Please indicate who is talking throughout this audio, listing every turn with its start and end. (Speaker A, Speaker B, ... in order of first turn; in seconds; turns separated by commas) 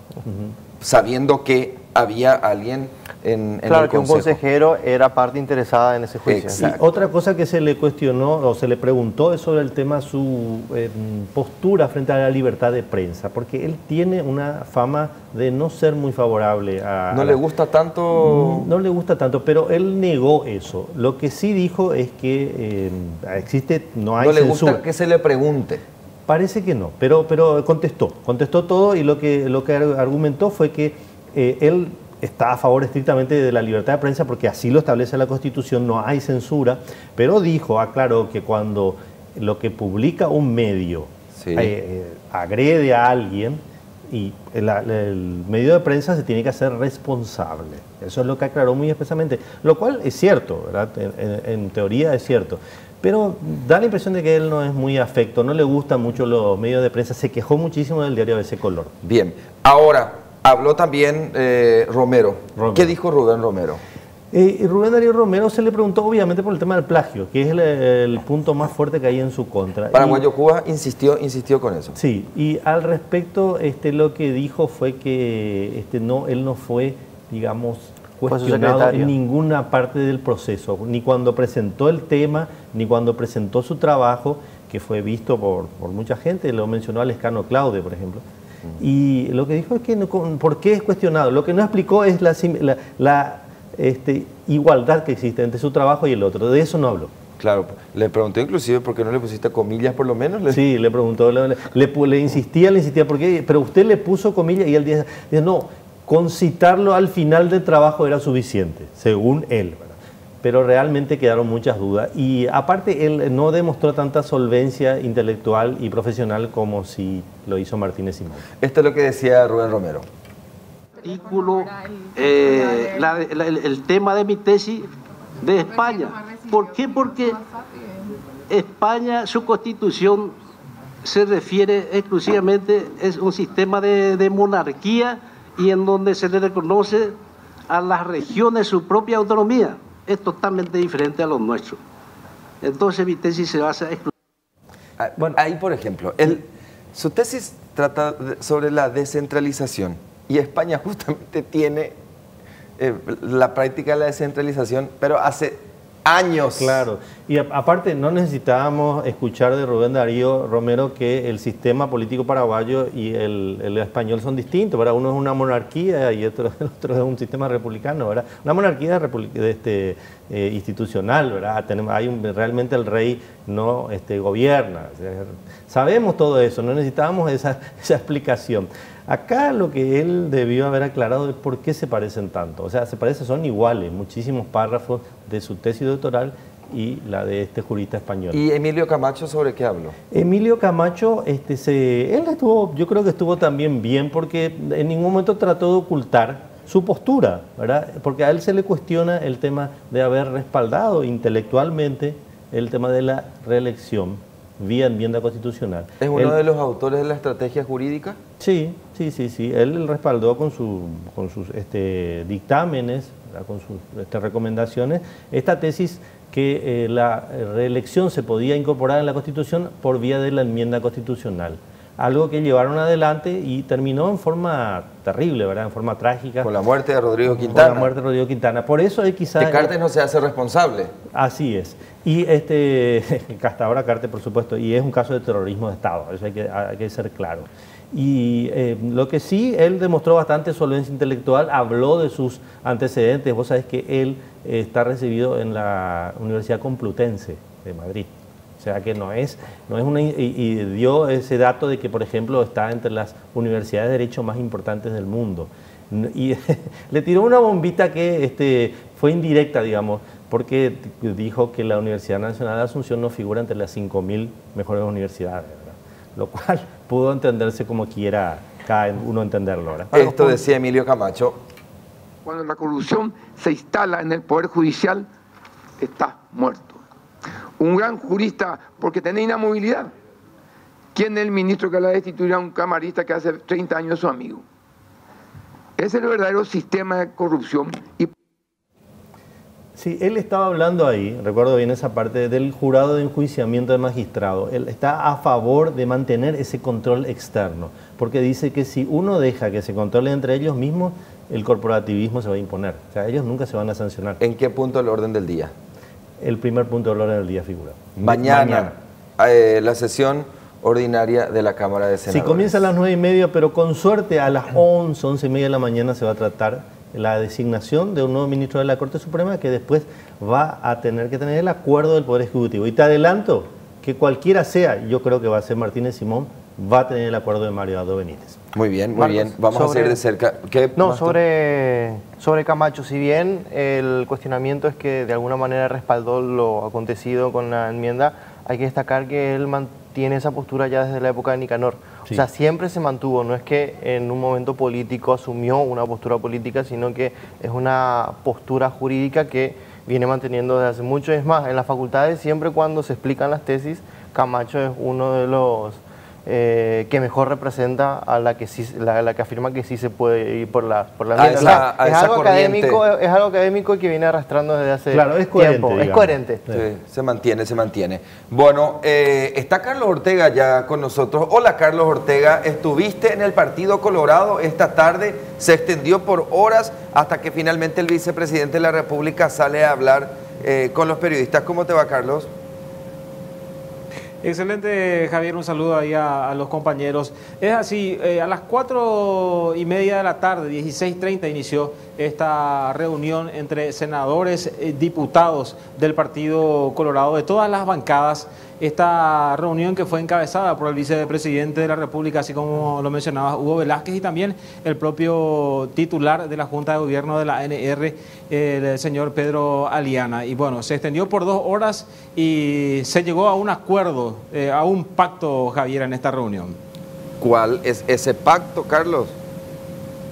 Speaker A: 0.2-0.5, Speaker B: 0.8-4.4, Speaker C: 3.7-6.7, Speaker B: 6.3-6.8, Speaker A: 6.6-17.4, Speaker B: 17.1-18.7, Speaker A: 18.1-24.8, Speaker B: 24.2-25.8, Speaker A: 26.3-58.9, Speaker B: 41.4-41.7, Speaker B: 59.0-63.8, Speaker A: 62.6-63.0, Speaker A: 64.3-70.2, Speaker B: 69.9-72.0, Speaker A: 72.0-88.2, Speaker C: 78.3-79.1, Speaker A: 88.8-97.1, Speaker B: 97.4-100.6, Speaker A: 100.5-118.4, Speaker B: 118.6-120.1, Speaker D: 121.0-124.9, Speaker D: 125.4-127.5, Speaker D: 128.5-130.3, Speaker D: 131.0-137.2, Speaker D: 137.7-141.8, Speaker D: 142.6-144.1, Speaker B: 145.0-152.0, Speaker B: 152.8-156.9, Speaker A: 156.6-188.4, Speaker B: 188.3-190.0, Speaker A: 190.1-206.4, Speaker B: 206.0-208.2, Speaker A: 208.4-226.5, Speaker B: 226.4-227.9, Speaker A: 227.3-229.7, Speaker B: 229.4-230.9, Speaker A: 231.1-270.4, Speaker B: 269.9-271.4, Speaker E: 272.2-275.1, Speaker E: 275.8-276.8, Speaker E: 277.6-279.9, Speaker E: 280.9-284.4, Speaker E: 285.8-288.1, Speaker A: 289.8-304.2, Speaker B: 304.2-305.5, Speaker A: 306.2-308.8, Speaker B: 308.0-312.6, Speaker A: 312.1-328.4, Speaker B: 328.5-331.1, Speaker C: 329.0-330.0, Speaker C: 330.8-366.4, Speaker B: 361.2-362.8, Speaker A: 364.9-366.7, Speaker B: 366.5-382.3, Speaker F: 384.2-416.6, Speaker B: 417.2-419.2